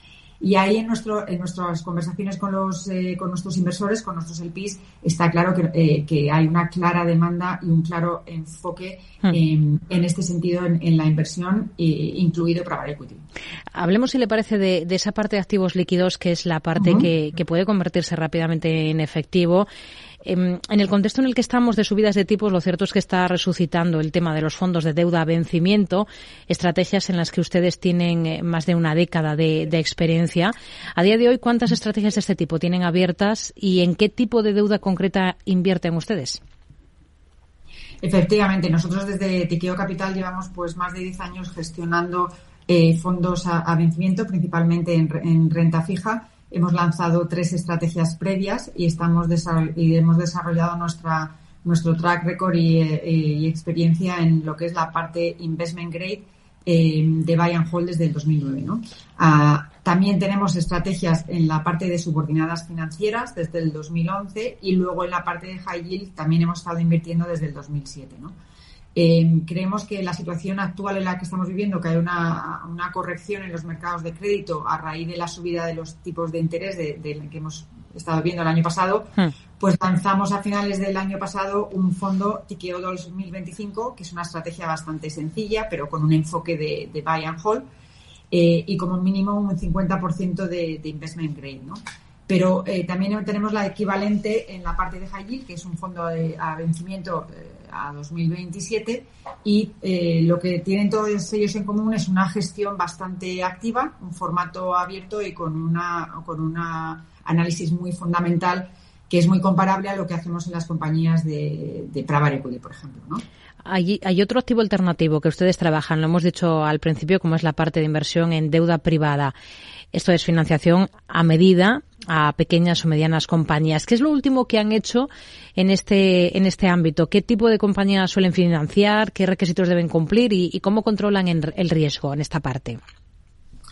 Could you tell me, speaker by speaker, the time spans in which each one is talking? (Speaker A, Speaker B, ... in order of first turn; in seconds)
Speaker A: 0.4-13.2, 16.8-17.1, 38.0-68.3, 68.9-87.7, 88.3-113.2
Speaker B: 13.7-19.7, 20.2-36.4, 113.6-119.3, 119.9-132.8